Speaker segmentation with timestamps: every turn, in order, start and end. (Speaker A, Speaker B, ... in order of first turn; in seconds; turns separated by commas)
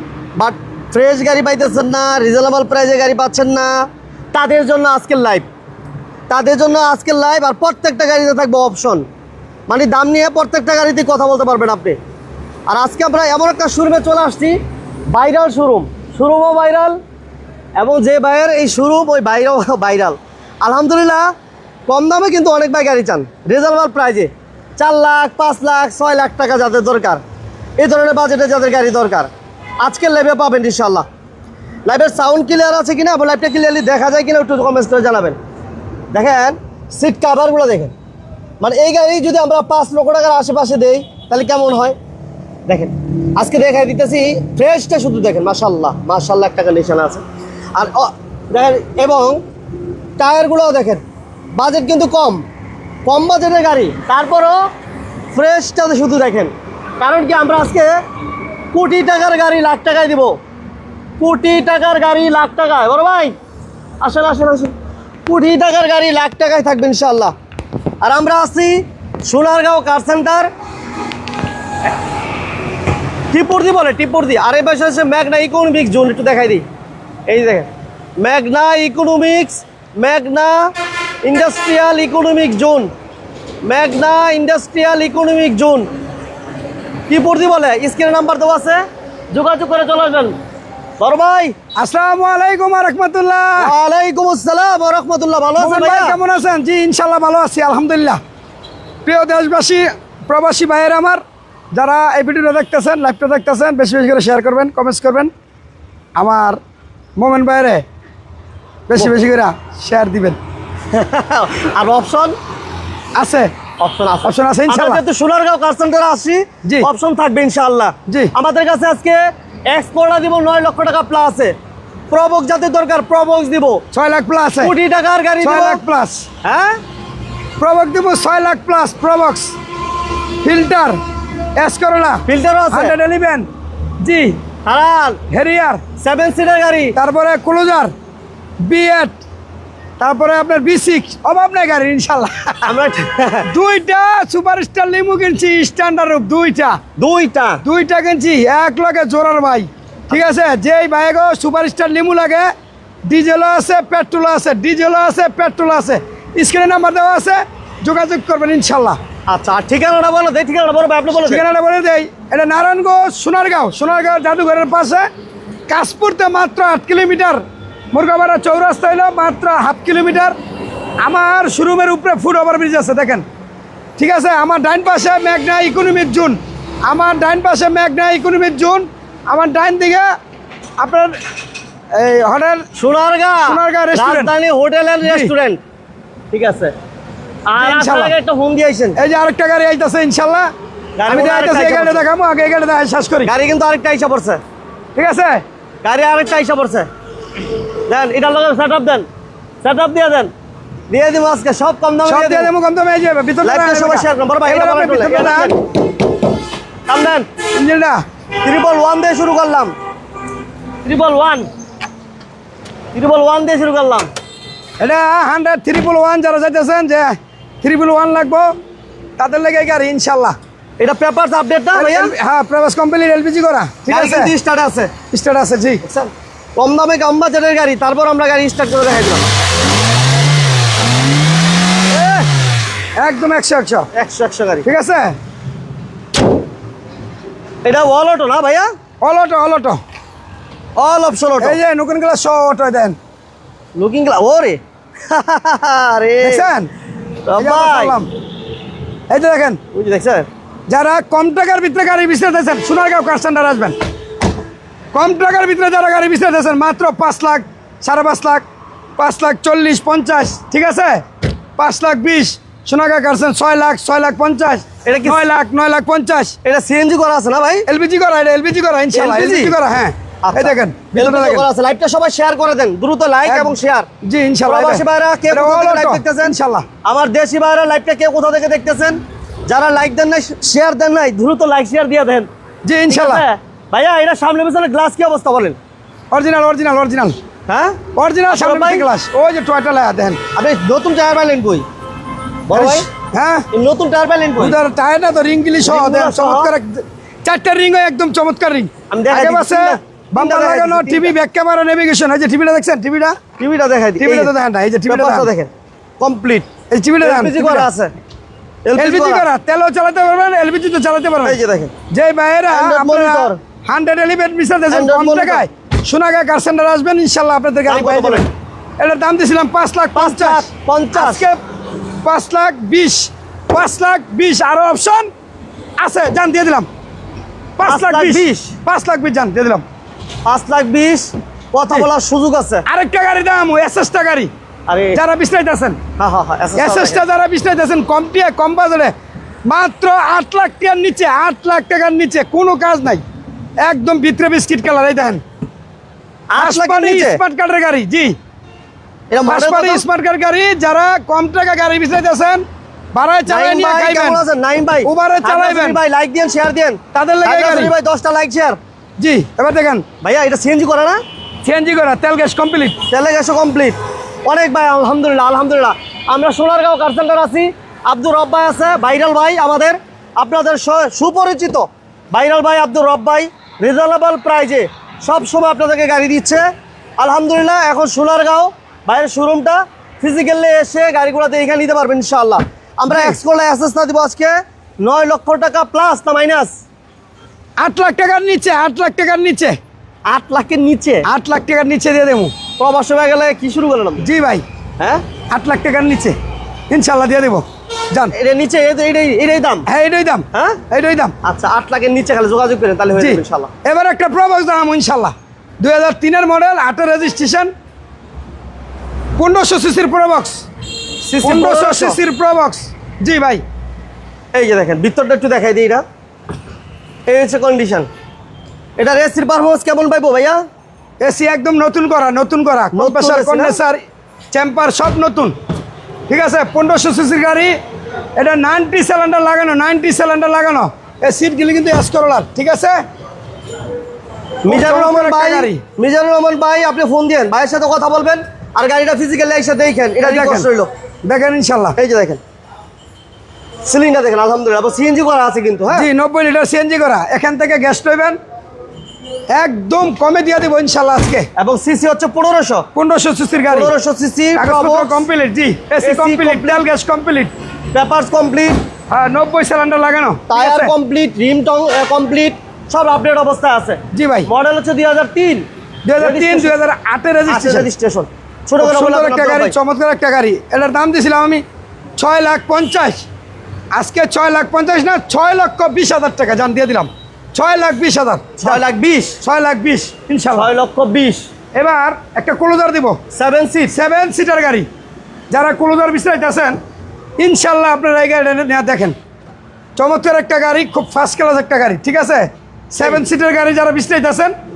Speaker A: 0.4-5.5, Speaker A: 6.3-9.1, Speaker A: 9.7-12.0, Speaker A: 12.7-17.0, Speaker A: 17.8-21.3, Speaker A: 21.9-27.2, Speaker A: 27.8-29.3, Speaker A: 29.8-31.1, Speaker A: 31.9-35.4, Speaker A: 36.1-37.9, Speaker A: 38.6-42.0, Speaker A: 42.7-47.2, Speaker A: 47.8-49.4, Speaker A: 50.2-51.0, Speaker A: 51.5-52.4, Speaker A: 53.1-54.6, Speaker A: 55.3-58.0, Speaker A: 58.7-60.4, Speaker A: 61.2-63.4, Speaker A: 64.0-64.7, Speaker A: 65.3-67.3, Speaker A: 68.0-70.5, Speaker A: 73.3-76.7, Speaker A: 77.3-80.7, Speaker A: 81.2-82.9, Speaker A: 83.6-85.9, Speaker A: 87.1-90.4, Speaker A: 91.0-91.5, Speaker B: 91.8-93.7, Speaker A: 93.6-96.2, Speaker B: 95.6-98.2, Speaker B: 99.0-105.3, Speaker B: 106.2-106.6, Speaker B: 107.2-107.8, Speaker B: 108.9-110.4, Speaker A: 110.9-112.4, Speaker B: 113.2-113.5, Speaker A: 113.8-121.5, Speaker B: 114.2-115.0, Speaker B: 118.1-118.3, Speaker A: 122.1-123.8, Speaker B: 123.9-124.7, Speaker A: 124.6-125.8, Speaker B: 125.4-126.3, Speaker A: 126.4-126.8, Speaker B: 127.6-129.5, Speaker B: 130.4-131.0, Speaker B: 131.6-133.5, Speaker A: 132.3-132.9, Speaker B: 134.0-134.4, Speaker A: 134.7-135.2, Speaker B: 135.3-135.8, Speaker A: 136.0-137.0, Speaker B: 137.0-137.9, Speaker B: 138.6-139.2, Speaker B: 140.0-142.7, Speaker A: 142.7-143.5, Speaker B: 143.5-146.8, Speaker A: 147.0-147.6, Speaker B: 147.6-152.5, Speaker B: 153.1-159.0, Speaker A: 159.3-161.4, Speaker B: 161.2-165.1, Speaker B: 165.7-170.3, Speaker B: 171.0-173.2, Speaker B: 174.0-180.1, Speaker B: 180.8-181.2, Speaker B: 181.9-182.6, Speaker A: 182.8-185.6, Speaker B: 183.5-184.3, Speaker B: 185.0-185.3, Speaker A: 186.3-186.7, Speaker A: 187.5-189.0, Speaker B: 187.6-188.1, Speaker B: 189.0-190.5, Speaker A: 191.0-192.1, Speaker B: 191.1-193.3, Speaker A: 193.3-194.4, Speaker B: 195.0-195.4, Speaker A: 195.8-196.9, Speaker A: 197.9-199.1, Speaker A: 199.6-200.3, Speaker A: 200.9-202.5, Speaker B: 202.1-205.5, Speaker A: 203.4-205.6, Speaker A: 206.9-207.3, Speaker B: 207.6-208.0, Speaker A: 208.4-209.7, Speaker A: 210.8-211.5, Speaker A: 212.9-214.1, Speaker B: 214.8-218.5, Speaker B: 219.2-220.3, Speaker A: 220.8-222.1, Speaker B: 221.7-224.3, Speaker A: 223.9-224.9, Speaker B: 225.1-225.8, Speaker A: 225.8-229.3, Speaker A: 231.9-232.3, Speaker B: 233.0-233.9, Speaker A: 233.9-234.7, Speaker B: 234.7-235.2, Speaker A: 237.7-238.7, Speaker B: 239.0-239.8, Speaker A: 240.8-241.6, Speaker B: 241.4-243.0, Speaker A: 243.8-246.5, Speaker B: 246.2-246.7, Speaker A: 247.3-248.0, Speaker B: 247.4-248.1, Speaker B: 249.1-249.6, Speaker A: 249.7-250.3, Speaker B: 250.7-253.8, Speaker B: 254.9-258.4, Speaker B: 259.0-261.0, Speaker B: 261.6-266.4, Speaker A: 264.9-265.2, Speaker A: 266.4-267.7, Speaker B: 267.7-271.5, Speaker A: 268.9-269.6, Speaker A: 270.2-273.9, Speaker B: 273.3-276.7, Speaker A: 274.5-282.3, Speaker B: 282.6-283.2, Speaker A: 282.9-285.6, Speaker B: 286.1-287.1, Speaker A: 287.5-287.8, Speaker B: 287.9-290.2, Speaker A: 288.3-288.9, Speaker A: 290.4-291.6, Speaker A: 292.5-292.9, Speaker B: 292.5-293.5, Speaker A: 293.5-294.6, Speaker B: 294.4-303.2, Speaker A: 295.6-296.5, Speaker A: 298.9-301.1, Speaker A: 303.4-304.3, Speaker B: 304.0-305.3, Speaker A: 304.9-306.5, Speaker B: 306.7-307.7, Speaker A: 307.0-307.9, Speaker A: 308.6-309.2, Speaker B: 308.8-311.4, Speaker A: 311.2-311.7, Speaker B: 311.9-318.3, Speaker A: 312.5-313.4, Speaker A: 314.7-315.4, Speaker A: 317.7-318.3, Speaker B: 318.8-321.4, Speaker A: 320.0-321.3, Speaker B: 322.0-325.1, Speaker B: 325.8-326.7, Speaker B: 327.6-329.6, Speaker A: 327.6-328.5, Speaker A: 330.3-332.6, Speaker B: 332.7-334.3, Speaker A: 334.7-335.0, Speaker B: 334.9-335.8, Speaker A: 336.0-337.0, Speaker B: 336.6-338.9, Speaker B: 339.5-343.0, Speaker B: 343.6-345.2, Speaker A: 346.3-347.2, Speaker B: 346.4-348.2, Speaker A: 349.1-349.8, Speaker B: 349.3-354.2, Speaker A: 353.3-358.6, Speaker B: 354.8-355.8, Speaker B: 356.9-357.7, Speaker B: 359.0-359.9, Speaker A: 360.0-361.0, Speaker B: 361.4-362.8, Speaker A: 362.9-376.4, Speaker A: 377.0-386.5, Speaker B: 382.9-383.2, Speaker B: 387.6-389.6, Speaker A: 390.1-391.1, Speaker B: 391.1-392.3, Speaker A: 392.6-394.1, Speaker B: 394.0-394.4, Speaker B: 395.3-396.2, Speaker B: 396.7-398.1, Speaker A: 398.1-399.7, Speaker B: 399.7-401.1, Speaker A: 400.3-400.6, Speaker A: 401.2-403.5, Speaker B: 403.0-407.5, Speaker B: 409.2-410.4, Speaker A: 411.0-412.0, Speaker B: 411.2-413.4, Speaker A: 414.3-415.9, Speaker A: 417.1-417.9, Speaker A: 418.8-420.4, Speaker B: 421.0-425.4, Speaker A: 422.7-423.6, Speaker B: 426.1-427.5, Speaker B: 428.2-432.8, Speaker A: 434.4-440.7, Speaker B: 434.5-435.6, Speaker B: 440.0-440.5, Speaker B: 441.1-441.8, Speaker A: 441.8-442.2, Speaker A: 443.6-445.9, Speaker B: 445.7-448.2, Speaker B: 449.3-451.3, Speaker A: 451.4-452.7, Speaker B: 452.8-453.7, Speaker A: 453.5-455.1, Speaker B: 454.4-457.3, Speaker A: 455.8-456.7, Speaker A: 457.7-458.6, Speaker B: 458.9-460.7, Speaker A: 460.3-465.5, Speaker B: 463.9-464.3, Speaker B: 465.9-467.7, Speaker A: 466.0-466.5, Speaker A: 467.3-469.5, Speaker B: 468.6-471.4, Speaker B: 472.0-473.1, Speaker B: 473.7-478.6, Speaker A: 478.4-479.2, Speaker B: 479.2-480.5, Speaker A: 480.4-481.3, Speaker B: 481.6-483.0, Speaker A: 483.1-483.8, Speaker B: 483.7-484.7, Speaker B: 485.3-486.6, Speaker B: 487.2-488.9, Speaker B: 489.8-494.3